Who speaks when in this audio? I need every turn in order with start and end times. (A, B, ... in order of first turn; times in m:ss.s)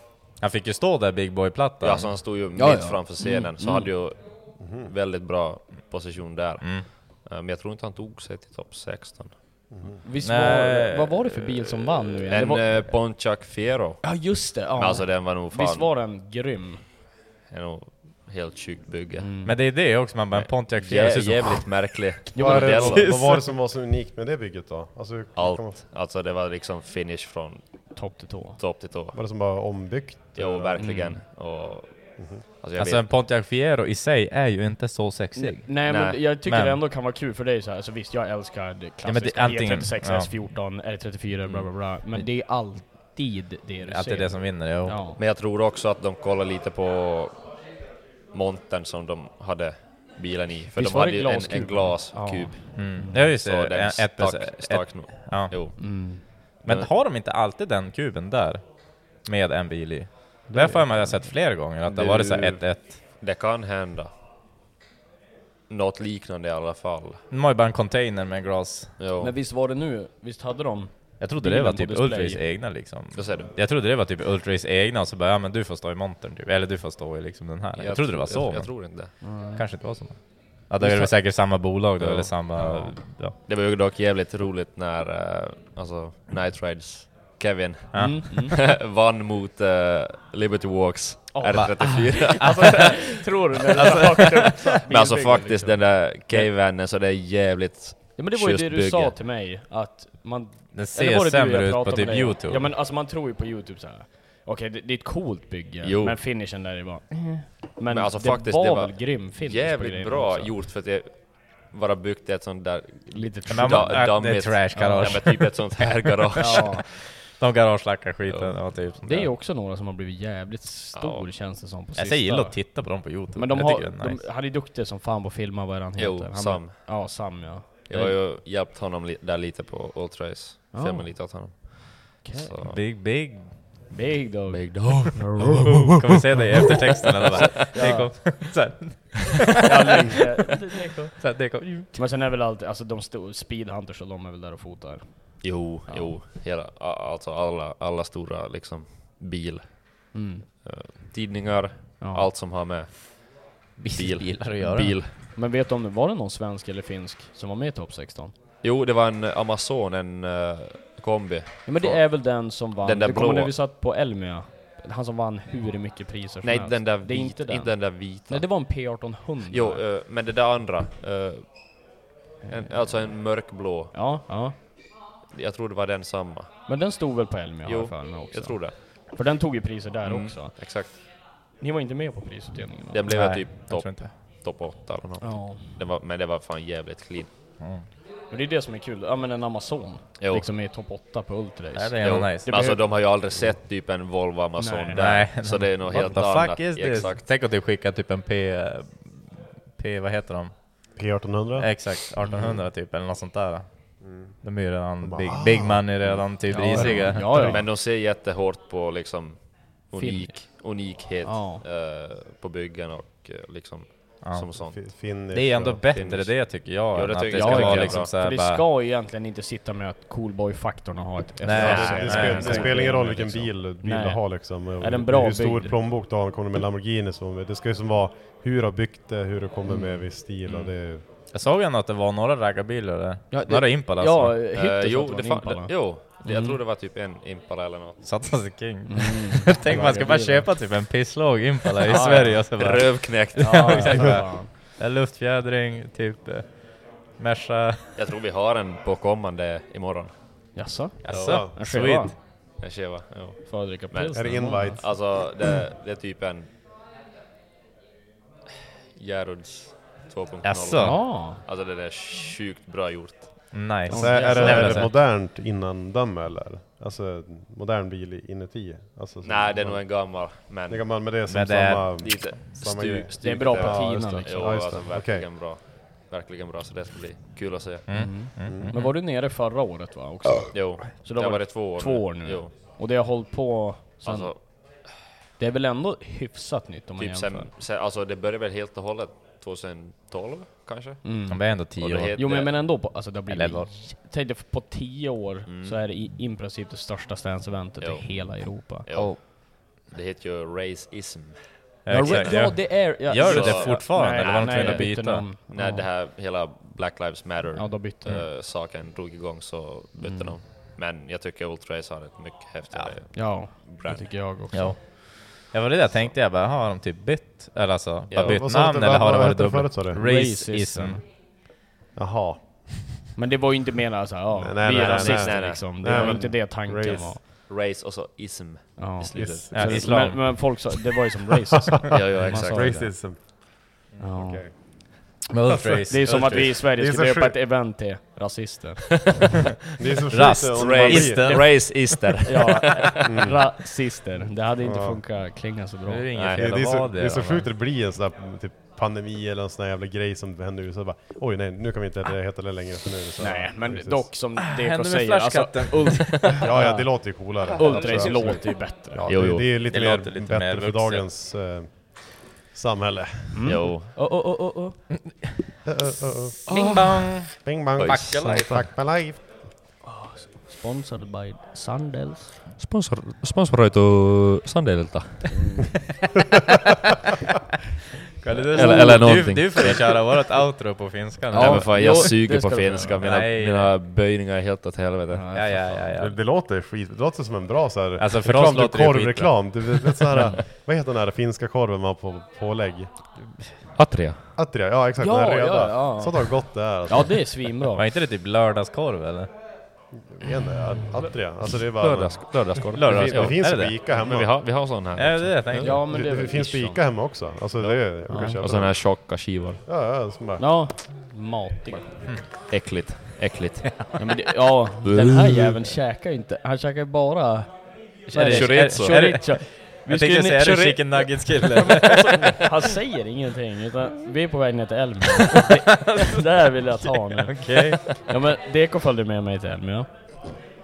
0:00.4-0:02.2 A
0:01.8-0:09.4 B
0:02.6-0:03.9 C
0:04.6-0:04.9 D
0:06.6-0:06.9 A
0:09.7-0:10.0 D
0:10.0-0:13.1 C
0:10.2-0:11.6 A
0:12.3-0:15.9 B
0:14.0-0:16.8 C
0:17.5-0:19.3 B
0:19.2-0:19.6 C
0:19.4-0:23.5 A
0:20.3-0:23.1 B
0:22.3-0:23.1 C
0:22.4-0:25.8 D
0:25.4-0:29.2 B
0:27.9-0:28.6 C
0:29.1-0:30.8 D
0:30.4-0:33.1 B
0:30.8-0:31.2 C
0:32.2-0:32.4 D
0:32.8-0:35.8 A
0:35.4-0:45.2 C
0:35.8-0:36.2 B
0:36.4-0:36.8 A
0:39.0-0:40.5 A
0:41.5-0:42.3 A
0:43.8-0:45.0 A
0:45.2-0:47.5 B
0:48.3-0:56.9 B
0:50.8-0:53.3 C
0:52.8-1:03.0 A
0:55.8-0:56.2 C
1:00.5-1:01.2 C
1:01.8-1:04.1 B
1:05.7-1:07.2 B
1:07.3-1:09.0 A
1:09.0-1:09.3 B
1:09.2-1:12.4 C
1:11.2-1:23.4 A
1:13.1-1:13.5 B
1:17.8-1:19.2 B
1:19.2-1:20.3 C
1:20.8-1:21.1 C
1:22.0-1:22.8 B
1:22.6-1:23.0 C
1:23.4-1:33.0 B
1:27.9-1:28.5 A
1:28.0-1:28.6 C
1:31.3-1:36.5 C
1:31.5-1:32.7 A
1:33.8-1:34.5 A
1:34.9-1:39.2 B
1:38.2-1:50.5 C
1:40.7-1:42.7 A
1:45.8-1:46.2 B
1:47.9-1:56.8 B
1:53.1-1:55.5 C
1:53.5-1:56.6 A
1:56.4-1:56.8 C
1:57.4-1:59.3 A
1:58.3-1:58.8 B
1:59.0-2:08.2 C
2:00.9-2:01.3 B
2:02.0-2:04.2 A
2:06.0-2:07.1 B
2:07.9-2:12.8 B
2:10.7-2:11.6 C
2:12.2-2:12.6 C
2:12.6-2:13.9 A
2:13.9-2:15.8 C
2:14.5-2:15.6 B
2:15.6-2:20.1 A
2:17.4-2:18.6 C
2:19.6-2:26.2 C
2:21.2-2:22.0 A
2:25.4-2:35.1 B
2:30.1-2:30.5 C
2:32.0-2:32.3 C
2:33.8-2:35.0 A
2:35.3-2:38.3 C
2:38.6-2:43.6 B
2:41.6-2:49.8 C
2:46.4-2:48.5 B
2:49.5-2:53.9 B
2:52.4-2:54.6 C
2:55.3-2:56.5 B
2:56.7-3:01.1 C
2:57.6-2:58.8 B
3:00.0-3:01.0 B
3:01.6-3:03.0 C
3:02.9-3:07.3 B
3:03.1-3:04.1 A
3:05.2-3:05.8 C
3:07.6-3:07.9 A
3:08.3-3:12.8 C
3:10.2-3:10.5 B
3:11.8-3:12.6 A
3:12.0-3:17.3 B
3:14.6-3:15.1 C
3:15.0-3:20.5 A
3:21.0-3:22.6 D
3:21.6-3:23.7 A
3:24.0-3:24.4 D
3:24.4-3:27.6 A
3:25.0-3:25.9 D
3:26.0-3:34.8 B
3:26.5-3:27.7 C
3:29.9-3:30.4 C
3:31.2-3:31.6 C
3:34.2-3:34.7 A
3:34.6-3:35.8 D
3:35.3-3:38.6 A
3:35.8-3:38.1 B
3:37.3-3:45.8 C
3:41.4-3:42.9 A
3:41.6-3:43.3 B
3:41.6-3:51.0 D
3:49.7-3:50.0 C
3:50.4-3:50.7 B
3:51.3-3:54.4 A
3:53.3-3:56.6 C
3:54.5-3:58.0 B
3:58.0-4:08.0 A
3:58.9-4:00.5 C
4:01.8-4:02.4 C
4:01.9-4:04.2 B
4:03.4-4:04.5 C
4:08.0-4:11.4 B
4:10.6-4:12.1 C
4:11.0-4:12.2 A
4:11.2-4:11.5 D
4:12.6-4:16.5 B
4:13.4-4:14.8 C
4:14.1-4:15.3 D
4:19.0-4:23.7 B
4:20.4-4:21.1 A
4:20.8-4:21.4 C
4:23.5-4:25.0 A
4:23.9-4:24.9 C
4:23.9-4:35.3 D
4:24.4-4:24.7 B
4:29.2-4:31.1 B
4:31.3-4:32.4 A
4:32.0-4:38.2 B
4:33.2-4:34.6 C
4:37.9-4:38.9 A
4:37.9-4:44.6 C
4:40.5-4:42.5 B
4:44.0-4:44.4 B
4:45.4-4:47.5 C
4:47.0-4:52.5 B
4:51.0-4:51.6 C
4:51.3-4:52.2 A
4:52.2-4:59.1 C
4:53.3-4:53.7 A
4:55.5-4:55.8 B
4:57.8-5:05.0 B
5:01.9-5:05.3 A
5:01.9-5:05.9 C
5:05.5-5:14.3 B
5:07.6-5:08.2 C
5:10.0-5:10.4 C
5:13.1-5:14.8 C
5:14.5-5:21.0 A
5:18.1-5:18.4 B
5:18.2-5:20.0 D
5:20.0-5:21.1 C
5:22.0-5:23.0 D
5:23.2-5:27.2 C
5:24.3-5:27.2 D
5:24.6-5:30.1 B
5:28.8-5:33.0 C
5:29.2-5:30.0 D
5:29.5-5:30.5 A
5:31.9-5:32.9 B
5:31.9-5:34.9 D
5:34.0-5:34.4 C
5:35.3-5:36.6 A
5:35.5-5:37.4 D
5:35.9-5:39.2 C
5:39.8-5:41.3 D
5:40.1-5:41.8 A
5:40.5-5:43.3 B
5:41.2-5:46.0 C
5:43.0-5:43.4 D
5:44.6-5:45.0 D
5:45.9-5:47.5 A
5:46.1-5:46.6 B
5:46.3-5:54.1 D
5:53.2-5:59.1 C
5:54.4-5:56.4 A
5:56.4-6:03.6 D
5:57.6-5:58.6 A
5:59.1-5:59.6 B
5:59.3-6:01.1 A
6:03.3-6:04.8 C
6:03.4-6:03.9 B
6:05.7-6:06.4 D
6:06.5-6:08.7 B
6:06.5-6:06.8 C
6:06.5-6:08.7 A
6:07.4-6:09.4 D
6:09.8-6:12.3 C
6:12.6-6:15.6 B
6:15.3-6:15.7 C
6:18.2-6:22.2 A
6:18.5-6:20.1 B
6:18.6-6:19.0 C
6:21.3-6:23.0 C
6:21.3-6:25.8 B
6:23.0-6:23.8 A
6:25.1-6:25.8 C
6:25.3-6:26.2 A
6:26.0-6:32.9 D
6:28.0-6:30.0 A
6:33.8-6:34.2 B
6:34.4-6:37.5 D
6:35.0-6:37.8 C
6:37.8-6:39.3 A
6:39.9-6:44.4 D
6:41.6-6:45.8 B
6:42.8-6:43.8 A
6:44.9-6:45.9 A
6:45.6-6:46.9 C
6:45.6-6:50.5 D
6:48.1-6:48.4 C
6:48.4-6:49.6 B
6:50.4-6:52.1 C
6:52.1-6:52.8 A
6:52.4-6:53.9 B
6:54.0-7:10.4 C
6:54.8-6:55.5 B
6:58.1-7:02.3 A
6:58.2-6:59.2 B
7:05.8-7:06.2 A
7:07.2-7:07.9 A